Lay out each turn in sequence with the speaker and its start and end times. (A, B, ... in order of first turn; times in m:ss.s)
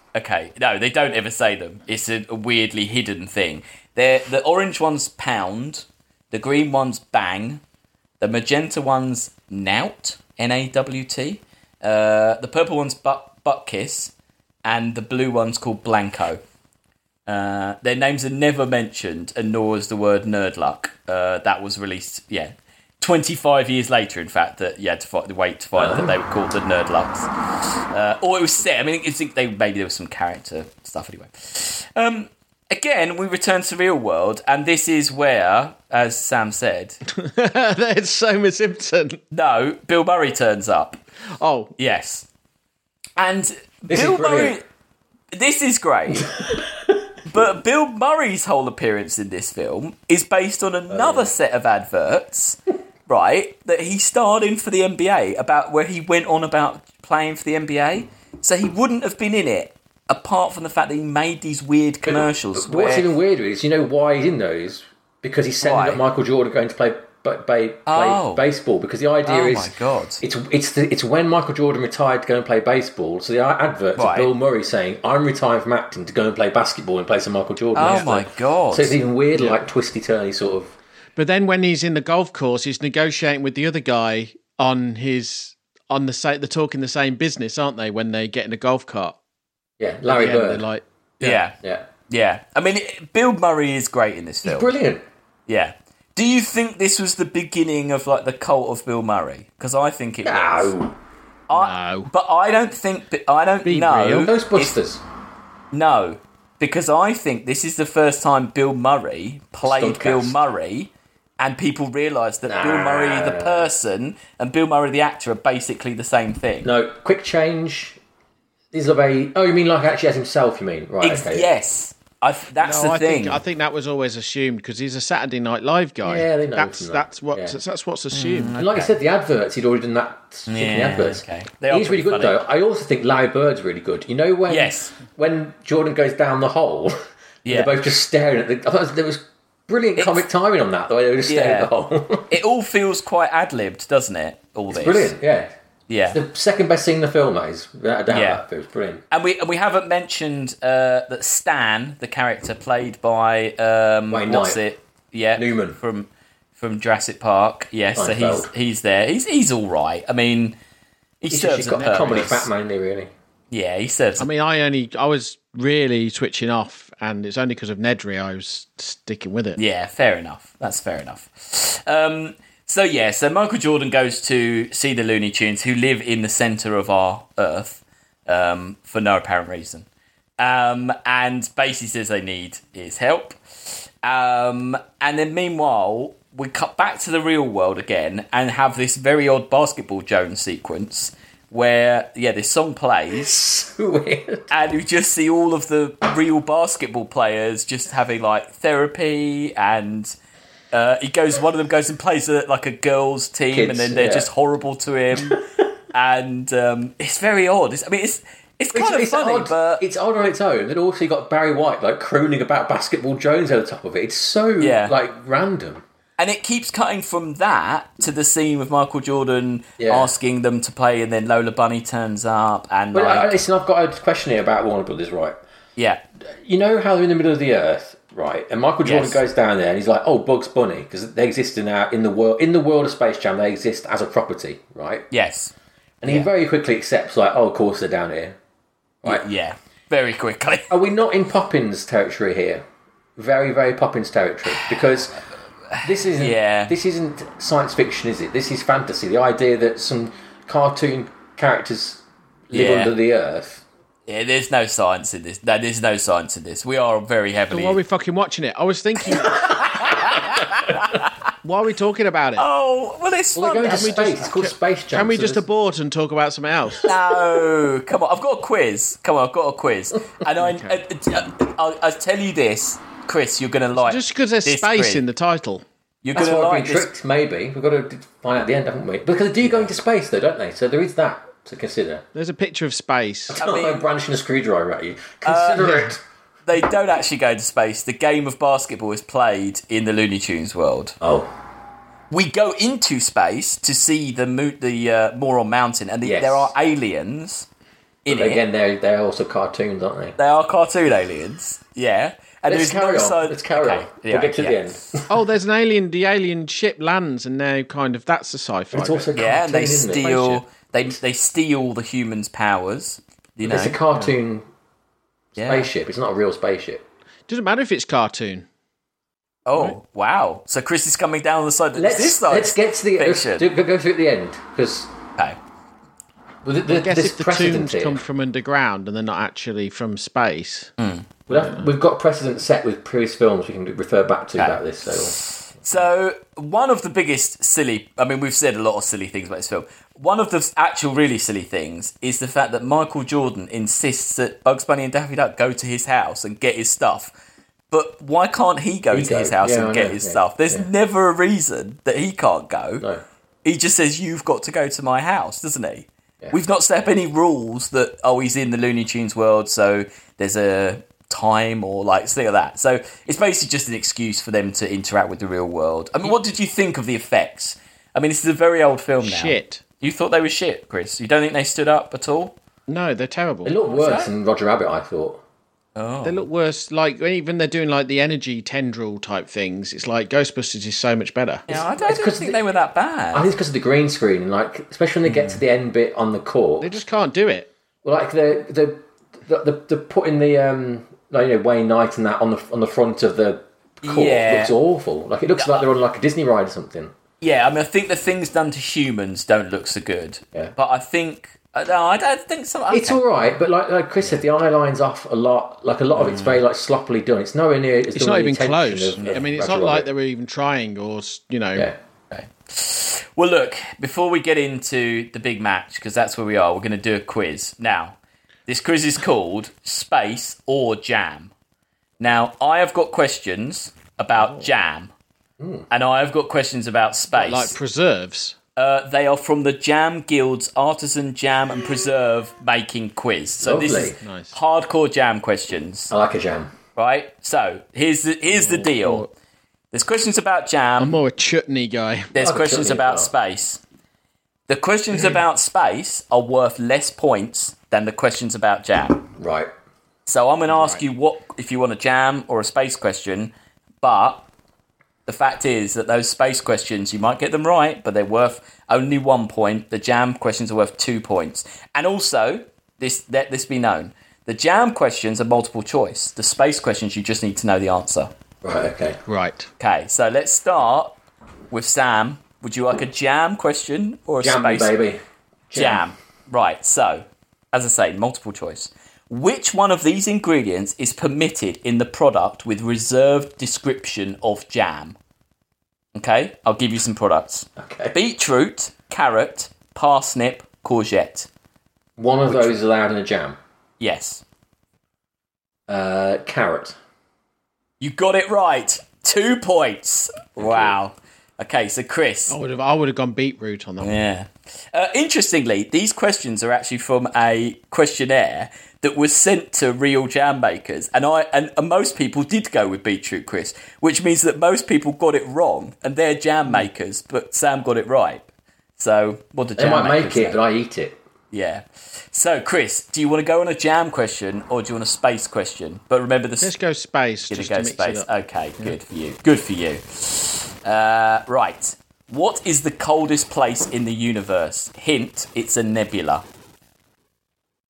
0:00.1-0:07.6 A
0:08.2-0:14.1 A
0:14.6-0:16.4 A
0:17.3-0:37.0 A
0:25.8-0:26.1 B
0:37.1-0:39.2 C
0:39.3-0:41.0 A
0:41.4-0:41.7 C
0:41.8-0:42.3 A
0:43.2-0:44.6 A
0:43.9-0:44.6 B
0:45.3-0:46.3 A
0:46.2-0:46.6 B
0:47.2-1:03.1 A
0:50.9-0:51.3 B
1:02.1-1:20.8 B
1:05.6-1:06.0 A
1:07.9-1:08.4 A
1:09.2-1:10.2 A
1:14.0-1:14.3 A
1:17.8-1:19.0 A
1:17.8-1:18.1 C
1:21.2-1:29.2 C
1:29.8-1:30.6 B
1:30.1-1:31.4 C
1:31.2-1:31.6 A
1:32.1-1:34.7 A
1:34.4-1:35.0 B
1:35.5-1:40.7 A
1:40.2-1:41.0 B
1:41.5-1:44.8 A
1:41.5-1:42.1 C
1:43.6-1:44.3 C
1:44.2-1:45.0 B
1:45.7-1:56.7 A
1:49.6-1:50.4 B
1:52.5-1:53.7 B
1:56.6-1:58.0 B
1:58.7-2:01.5 B
2:01.0-2:03.4 A
2:02.6-2:08.6 C
2:06.0-2:07.6 B
2:08.1-2:08.9 A
2:08.6-2:22.3 B
2:10.5-2:12.4 A
2:14.5-2:14.9 A
2:17.4-2:17.8 A
2:20.0-2:20.2 A
2:21.3-2:21.7 A
2:22.3-2:25.2 A
2:24.7-2:25.5 B
2:25.9-2:26.2 A
2:26.1-2:29.0 B
2:28.1-2:28.4 A
2:29.1-2:40.6 A
2:34.1-2:34.6 B
2:35.4-2:35.8 B
2:38.0-2:38.5 B
2:41.2-2:42.5 A
2:41.3-2:43.1 B
2:43.5-2:44.3 A
2:44.2-2:49.6 C
2:49.6-2:59.9 A
3:00.4-3:13.4 A
3:13.1-3:14.5 B
3:14.5-3:20.1 A
3:20.7-3:29.8 A
3:23.5-3:24.3 B
3:28.7-3:35.8 B
3:34.6-3:35.0 A
3:36.2-3:43.4 A
3:39.8-3:40.1 B
3:42.9-3:45.4 B
3:46.4-3:55.1 B
3:48.8-3:49.2 A
3:55.1-3:55.5 A
3:56.0-3:58.4 B
3:59.0-4:00.8 A
4:00.7-4:02.6 B
4:03.2-4:05.2 B
4:04.5-4:04.8 A
4:05.7-4:06.7 A
4:05.8-4:13.6 B
4:12.5-4:12.9 A
4:14.1-4:17.8 A
4:17.5-4:19.6 C
4:19.2-4:21.1 A
4:21.4-4:22.4 C
4:22.4-4:24.0 A
4:23.4-4:25.4 B
4:23.7-4:26.9 C
4:26.8-4:35.0 A
4:30.4-4:30.8 C
4:33.8-4:35.6 C
4:36.0-4:36.9 A
4:36.2-4:42.0 B
4:42.1-4:43.4 C
4:43.3-4:46.0 B
4:43.4-4:43.9 A
4:45.2-4:45.9 A
4:46.5-4:51.0 A
4:51.0-4:51.3 B
4:52.1-4:57.5 A
4:56.0-4:56.5 B
4:58.0-4:58.4 A
4:58.1-5:00.2 B
5:00.2-5:04.7 A
5:02.5-5:05.2 B
5:05.1-5:09.1 C
5:08.7-5:10.2 B
5:09.2-5:13.8 A
5:09.8-5:10.4 C
5:13.4-5:14.5 B
5:15.4-5:15.7 A
5:15.4-5:16.8 B
5:17.3-5:18.5 C
5:19.5-5:23.5 A
5:21.8-5:24.9 B
5:26.4-5:28.0 B
5:26.7-5:30.7 C
5:30.8-5:31.1 A
5:31.3-5:35.2 B
5:31.3-5:31.6 C
5:34.4-5:47.1 A
5:47.7-5:52.8 A
5:48.9-5:50.7 B
5:53.4-6:12.4 A
6:09.0-6:09.6 C
6:12.7-6:13.6 C
6:13.4-6:15.2 B
6:13.6-6:14.1 A
6:15.8-6:16.3 A
6:16.0-6:21.4 C
6:21.5-6:23.3 A
6:21.5-6:22.4 B
6:23.1-6:26.7 B
6:25.1-6:25.4 A
6:26.6-6:27.5 C
6:27.8-6:36.9 B
6:33.8-6:34.6 A
6:37.2-6:43.0 A
6:42.7-6:49.9 B
6:47.9-6:51.7 C
6:49.0-6:49.3 A
6:52.1-7:01.3 A
7:02.0-7:04.9 A
7:04.2-7:04.5 C
7:05.4-7:05.7 B
7:05.7-7:07.6 A
7:07.1-7:08.4 C
7:08.6-7:15.9 A
7:13.4-7:14.0 B
7:14.0-7:14.4 C
7:15.9-7:16.5 B
7:16.8-7:19.1 A
7:18.3-7:19.1 C
7:19.7-7:21.0 A
7:20.8-7:22.2 C
7:22.1-7:23.6 A
7:22.2-7:23.1 B
7:24.5-7:29.1 A
7:29.2-7:29.5 B
7:30.1-7:34.3 A
7:30.5-7:30.8 C
7:35.1-7:48.1 A
7:48.4-7:49.0 B
7:49.1-7:49.5 C
7:49.6-7:51.0 A
7:51.5-7:54.7 A
7:54.2-7:55.0 B
7:55.5-7:55.8 B
7:55.6-8:05.0 A
8:06.0-8:11.3 A
8:07.6-8:07.9 B
8:12.0-8:13.4 B
8:12.3-8:12.6 A
8:13.8-8:14.2 A
8:15.7-8:16.8 B
8:17.8-8:22.4 A
8:20.4-8:20.8 B
8:22.3-8:24.0 C
8:23.8-8:38.2 A
8:38.8-8:40.4 A
8:39.6-8:41.0 B
8:41.3-8:46.5 A
8:46.4-8:48.1 C
8:47.3-8:56.2 A